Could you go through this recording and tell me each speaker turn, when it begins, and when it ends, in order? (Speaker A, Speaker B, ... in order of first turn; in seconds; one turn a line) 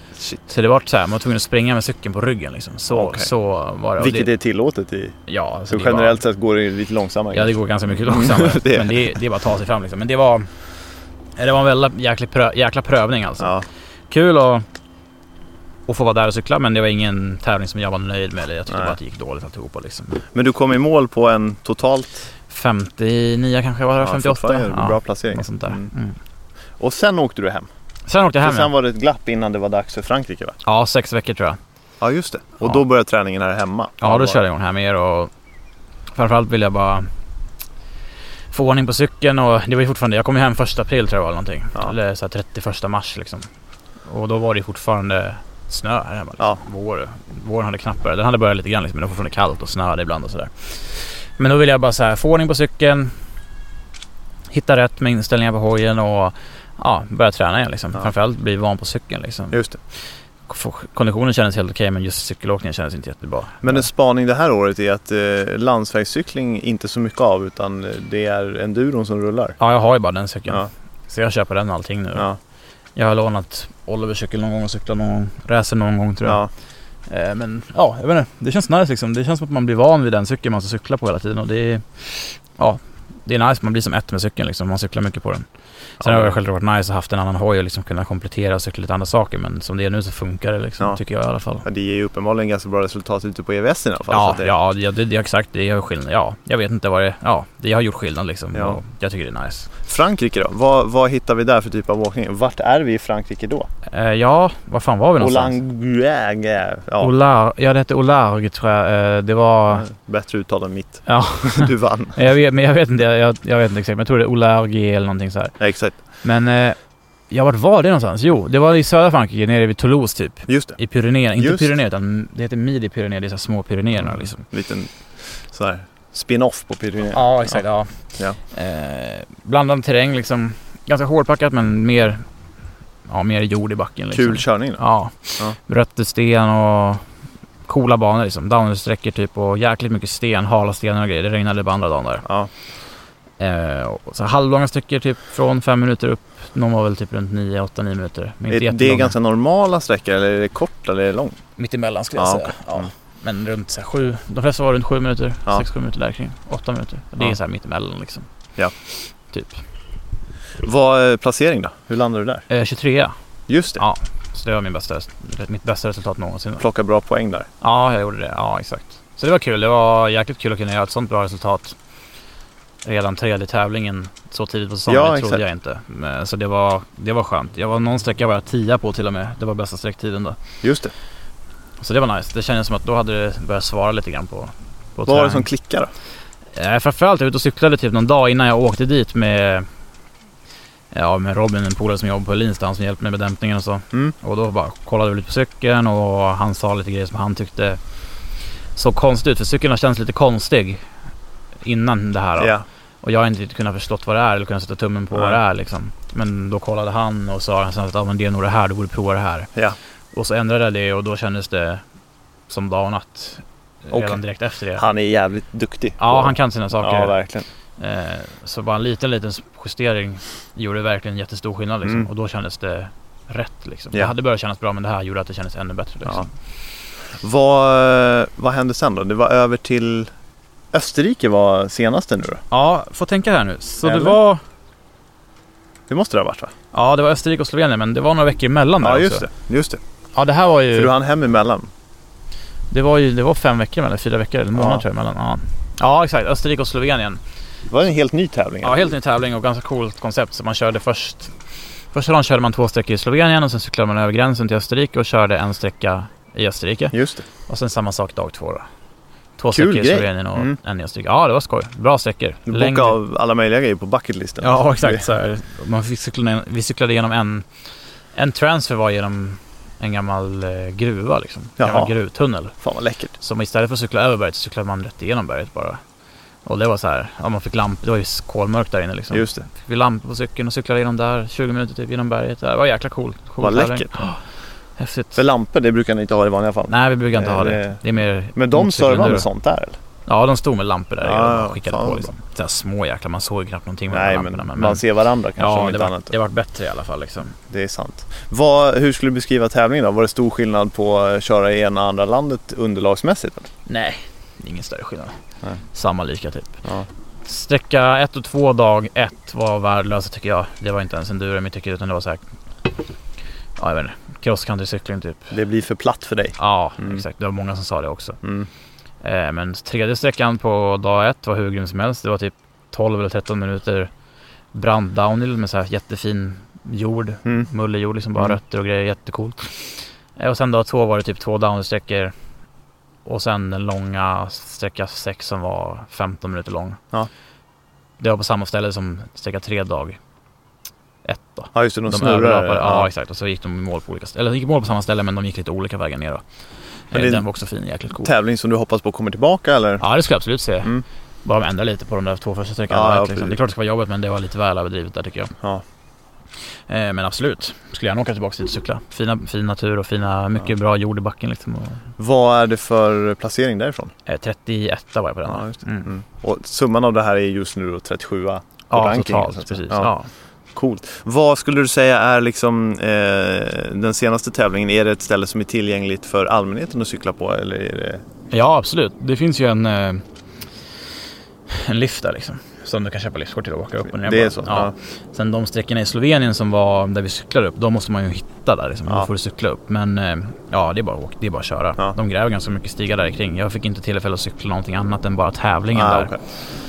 Speaker A: 0.5-4.3
Speaker B: 2.9-3.3
Speaker B: 4.0-5.2
Speaker A: 5.3-6.2
Speaker B: 5.7-9.1
Speaker A: 7.3-10.5
Speaker A: 11.4-13.5
Speaker B: 13.4-13.6
Speaker A: 14.1-14.7
Speaker A: 15.9-20.2
Speaker B: 18.7-18.9
Speaker B: 20.3-22.2
Speaker A: 22.5-26.2
Speaker B: 24.0-25.9
Speaker B: 26.8-27.7
Speaker A: 28.1-28.7
Speaker B: 28.4-30.6
Speaker A: 30.6-31.6
Speaker B: 32.0-34.4
Speaker A: 34.0-35.3
Speaker A: 36.1-37.1
Speaker A: 38.5-43.5
Speaker A: 44.0-53.1
Speaker A: 54.5-59.6
Speaker B: 59.5-59.8
Speaker A: 60.5-63.9
Speaker B: 63.6-69.6
Speaker A: 69.6-72.3
Speaker A: 73.0-76.4
Speaker B: 76.2-76.5
Speaker A: 77.1-85.5
Speaker B: 86.0-86.3
Speaker A: 86.0-91.7
Speaker B: 91.6-94.5
Speaker A: 94.1-99.7
Speaker B: 98.5-98.8
Speaker B: 99.8-103.7
Speaker A: 103.9-105.6
Speaker B: 105.2-107.1
Speaker A: 107.0-109.9
Speaker B: 109.7-112.2
Speaker A: 111.0-115.5
Speaker B: 115.6-115.9
Speaker A: 116.2-116.8
Speaker A: 117.3-124.4
Speaker B: 120.5-120.8
Speaker B: 121.4-121.7
Speaker B: 124.0-127.6
Speaker A: 127.1-132.2
Speaker A: 133.1-137.0
Speaker B: 134.1-134.8
Speaker A: 137.7-142.2
Speaker B: 142.2-142.5
Speaker A: 143.4-149.1
Speaker B: 148.5-151.4
Speaker A: 151.6-158.3
Speaker B: 152.2-152.9
Speaker A: 159.3-159.6
Speaker B: 160.6-162.4
Speaker A: 162.5-163.1
Speaker B: 163.5-163.8
Speaker A: 163.8-166.6
Speaker B: 166.6-167.5
Speaker A: 167.6-171.8
Speaker A: 172.8-180.4
Speaker B: 174.9-175.4
Speaker B: 180.6-180.9
Speaker A: 181.8-185.5
Speaker B: 185.1-185.9
Speaker A: 186.5-189.7
Speaker A: 190.9-197.8
Speaker A: 198.8-200.8
Speaker A: 201.6-209.5
Speaker B: 202.4-202.6
Speaker A: 210.1-211.8
Speaker A: 212.5-214.8
Speaker B: 213.9-214.2
Speaker B: 214.8-217.4
Speaker A: 216.0-217.2
Speaker A: 217.8-226.3
Speaker B: 227.2-230.1
Speaker B: 230.7-232.4
Speaker A: 232.5-234.4
Speaker B: 233.8-234.2
Speaker B: 235.9-236.5
Speaker A: 236.7-239.3
Speaker B: 238.8-239.8
Speaker A: 240.1-240.9
Speaker B: 240.7-241.7
Speaker A: 242.7-247.2
Speaker B: 244.5-244.8
Speaker B: 247.7-248.9
Speaker A: 248.6-251.3
Speaker A: 251.9-256.9
Speaker B: 256.9-257.2
Speaker A: 257.5-258.6
Speaker A: 259.4-263.0
Speaker B: 259.5-260.5
Speaker B: 262.5-265.0
Speaker A: 264.4-267.4
Speaker A: 268.1-272.6
Speaker B: 271.6-271.9
Speaker B: 272.6-273.1
Speaker A: 273.2-275.8
Speaker A: 276.4-284.2
Speaker B: 279.1-279.4
Speaker B: 283.4-284.1
Speaker A: 284.8-285.2
Speaker B: 285.1-287.8
Speaker A: 286.7-289.2
Speaker B: 288.3-289.8
Speaker A: 290.1-294.8
Speaker B: 291.0-292.1
Speaker B: 293.9-296.1
Speaker A: 295.4-297.4
Speaker B: 297.5-303.5
Speaker A: 303.7-305.2
Speaker A: 305.7-306.6
Speaker A: 307.2-312.2
Speaker A: 313.6-315.3
Speaker B: 315.3-317.0
Speaker A: 316.4-318.2
Speaker B: 318.2-318.5
Speaker A: 319.0-323.9
Speaker A: 324.5-332.1
Speaker A: 333.0-336.8
Speaker A: 338.0-340.0
Speaker A: 341.0-346.2
Speaker B: 341.5-342.9
Speaker A: 346.9-348.1
Speaker B: 346.9-347.2
Speaker B: 348.0-349.8
Speaker A: 349.8-355.3
Speaker B: 352.7-353.4
Speaker A: 356.7-361.8
Speaker B: 362.0-363.9
Speaker A: 364.1-365.9
Speaker B: 365.3-369.9
Speaker A: 368.7-370.1
Speaker B: 370.5-378.0
Speaker A: 378.3-380.0
Speaker A: 381.5-396.1
Speaker B: 383.9-384.7
Speaker B: 395.7-396.2